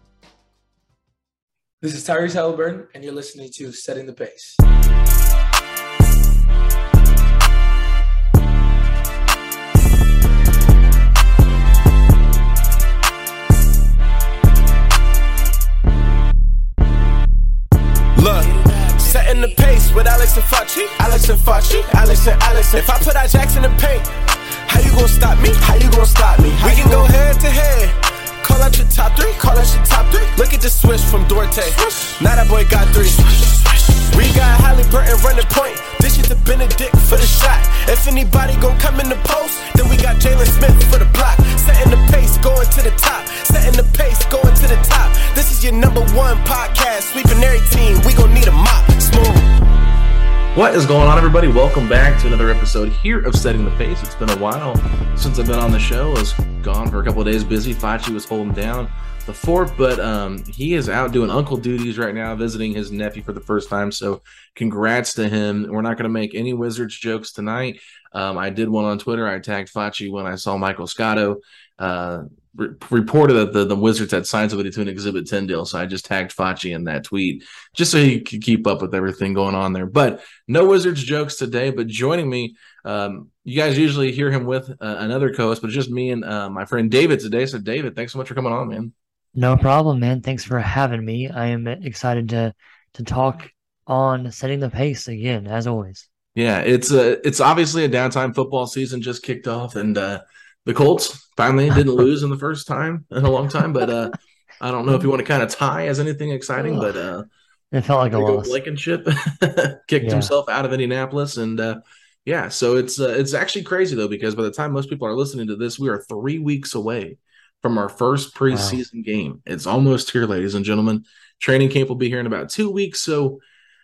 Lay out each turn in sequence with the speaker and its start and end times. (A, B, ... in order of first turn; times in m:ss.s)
0:01.8-0:04.6 A
0:18.2-0:24.1 B
0:24.7-0:49.5 B
0:26.7-0:27.0 A
0:50.5-1:28.9 C
1:29.4-1:36.1 D
1:36.4-1:47.3 C
1:47.7-1:48.6 D
1:48.1-2:03.4 C
1:50.0-1:50.3 D
1:58.5-1:58.8 D